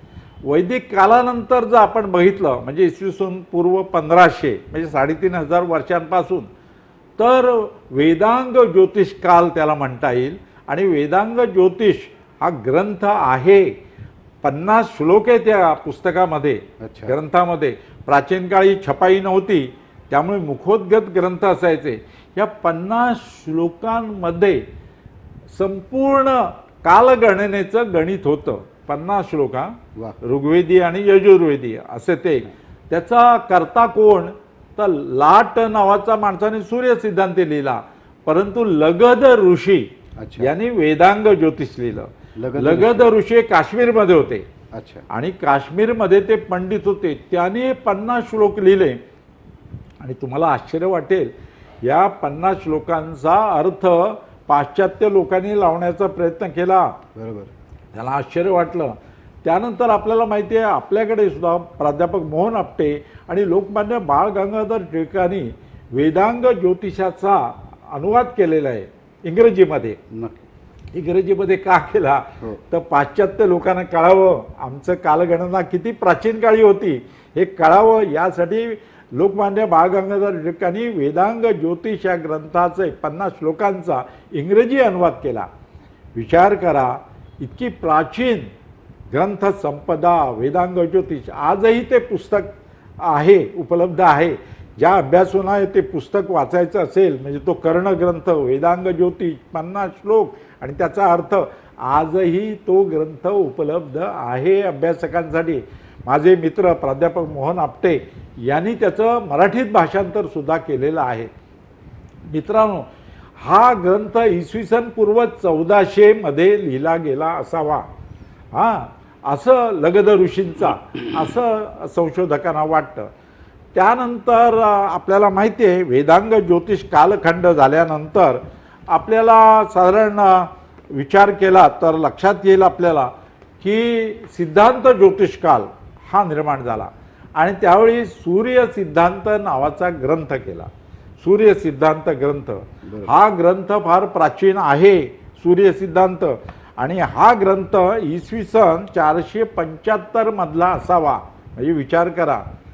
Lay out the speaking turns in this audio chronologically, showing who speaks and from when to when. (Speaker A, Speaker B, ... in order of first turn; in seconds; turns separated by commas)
Speaker A: 0.5-6.5, Speaker A: 7.2-13.7, Speaker A: 14.4-24.6, Speaker B: 16.8-17.1, Speaker A: 25.5-44.5, Speaker B: 40.2-40.5, Speaker B: 42.4-43.1, Speaker B: 44.7-45.1, Speaker A: 45.1-49.0, Speaker A: 50.0-51.3, Speaker A: 51.8-57.0, Speaker B: 57.1-57.5, Speaker A: 57.9-70.0, Speaker B: 70.1-70.5, Speaker A: 70.9-85.5, Speaker A: 86.2-88.5, Speaker A: 89.1-111.3, Speaker A: 112.3-112.9, Speaker A: 113.4-117.9, Speaker A: 118.5-123.1, Speaker A: 123.7-152.4, Speaker B: 142.8-143.1